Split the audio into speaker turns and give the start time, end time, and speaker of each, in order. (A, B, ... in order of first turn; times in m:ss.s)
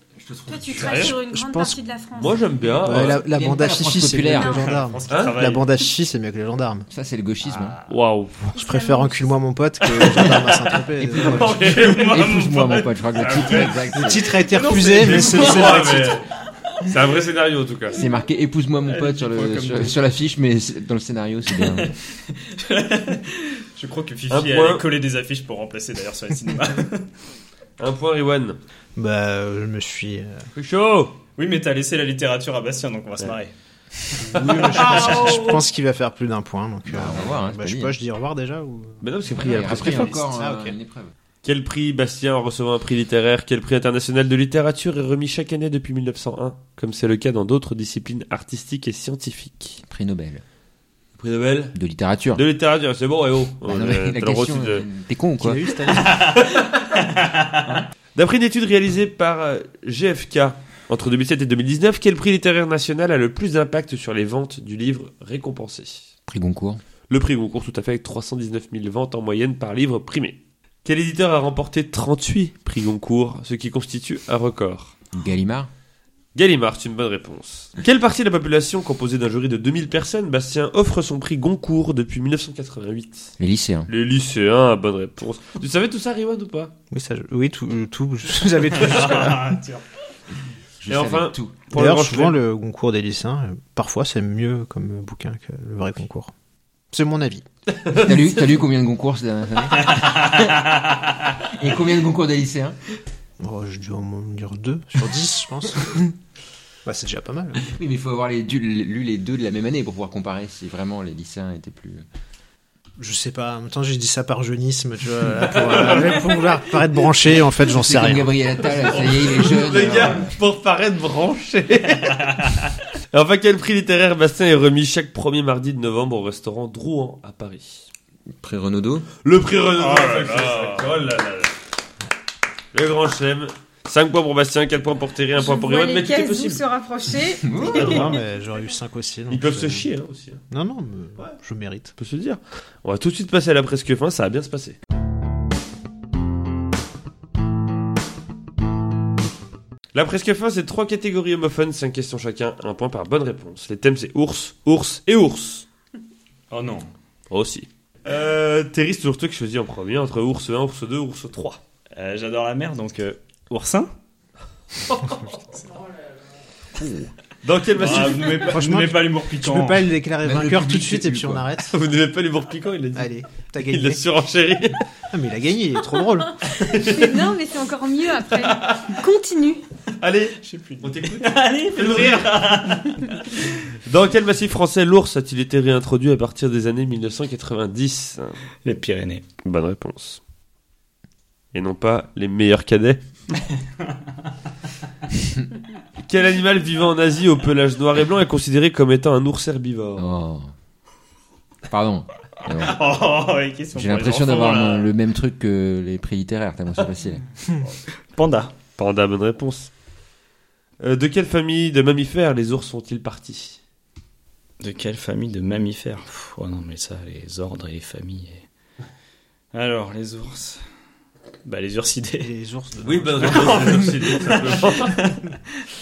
0:00.2-0:01.1 A
0:00.5-0:02.7 B
0:00.7-0:01.2 C
0:00.9-0:01.8 D
0:02.1-0:03.2 E
0:02.8-0:06.9 D
0:02.9-0:04.7 A
0:04.4-0:05.7 C
0:05.1-0:05.4 E
0:06.9-0:07.8 A
0:07.4-0:08.0 C
0:07.9-0:08.5 E
0:08.5-0:09.3 B
0:08.5-0:11.6 D
0:09.9-0:10.8 C
0:11.0-0:14.4 A
0:11.2-0:12.6 E
0:11.4-0:13.8 C
0:13.1-0:13.9 E
0:13.9-0:16.2 D
0:14.3-0:16.2 C
0:14.9-0:16.2 E
0:16.8-0:18.0 E
0:17.9-0:21.9 A
0:18.8-0:20.0 C
0:21.6-0:27.1 C
0:24.3-0:24.9 E
0:27.8-0:28.6 E
0:29.0-0:30.5 D
0:30.5-0:31.2 E
0:31.4-0:33.5 C
0:34.1-0:35.5 C
0:34.3-0:39.0 D
0:34.3-0:35.6 E
0:36.9-0:38.0 A
0:39.0-0:40.3 E
0:39.3-0:41.1 A
0:39.6-0:40.8 D
0:41.4-0:49.8 E
0:49.8-0:50.4 A
0:51.2-0:51.7 E
0:51.7-0:52.4 A
0:52.3-0:54.8 E
0:53.6-0:55.6 A
0:55.4-0:56.3 D
0:55.9-0:57.7 C
0:56.1-0:56.9 E
0:58.1-1:06.1 E
1:06.3-1:06.8 A
1:07.1-1:14.9 E
1:15.1-1:15.7 A
1:16.3-1:23.3 E
1:23.4-1:23.9 A
1:23.9-1:26.7 E
1:26.9-1:29.6 D
1:28.8-1:29.8 C
1:30.8-1:31.5 A
1:30.9-1:32.4 E
1:31.7-1:36.3 D
1:36.9-1:37.4 D
1:37.8-1:38.1 E
1:37.9-1:40.7 A
1:39.9-1:41.0 C
1:41.4-1:42.8 A
1:43.4-1:46.1 D
1:46.8-1:47.7 D
1:47.6-1:52.0 A
1:53.0-1:58.3 D
1:55.5-1:56.6 E
1:57.6-2:00.4 A
1:58.7-2:02.5 E
2:03.1-2:07.9 E
2:08.3-2:09.1 A
2:09.2-2:11.5 E
2:09.8-2:11.0 C
2:12.7-2:16.6 E
2:15.4-2:18.1 B
2:17.4-2:18.0 A
2:17.7-2:19.8 D
2:17.7-2:18.1 E
2:19.3-2:20.4 E
2:20.5-2:21.9 D
2:22.0-2:24.8 E
2:29.9-2:35.6 E
2:36.5-2:36.9 C
2:37.3-2:41.6 E
2:42.0-2:43.9 C
2:44.8-2:45.2 E
2:45.5-2:45.8 C
2:46.8-2:48.7 E
2:47.7-2:49.9 C
2:48.4-2:51.7 D
2:50.2-2:51.4 A
2:51.7-2:53.1 E
2:52.9-2:54.0 D
2:53.6-2:54.8 E
2:55.1-2:56.4 D
2:56.5-2:57.3 E
2:56.7-2:59.6 B
2:58.4-2:59.0 E
3:00.0-3:08.4 E
3:00.4-3:03.5 C
3:08.6-3:09.2 C
3:09.4-3:10.2 E
3:11.5-3:13.4 E
3:16.0-3:20.2 E
3:20.0-3:20.5 A
3:21.7-3:23.0 A
3:22.5-3:24.9 C
3:23.7-3:27.2 A
3:27.7-3:28.5 C
3:28.8-3:29.7 E
3:30.8-3:33.6 E
3:34.6-3:38.4 C
3:39.5-3:40.6 C
3:41.4-3:42.3 C
3:42.2-3:43.9 D
3:42.8-3:45.0 E
3:43.2-3:45.4 C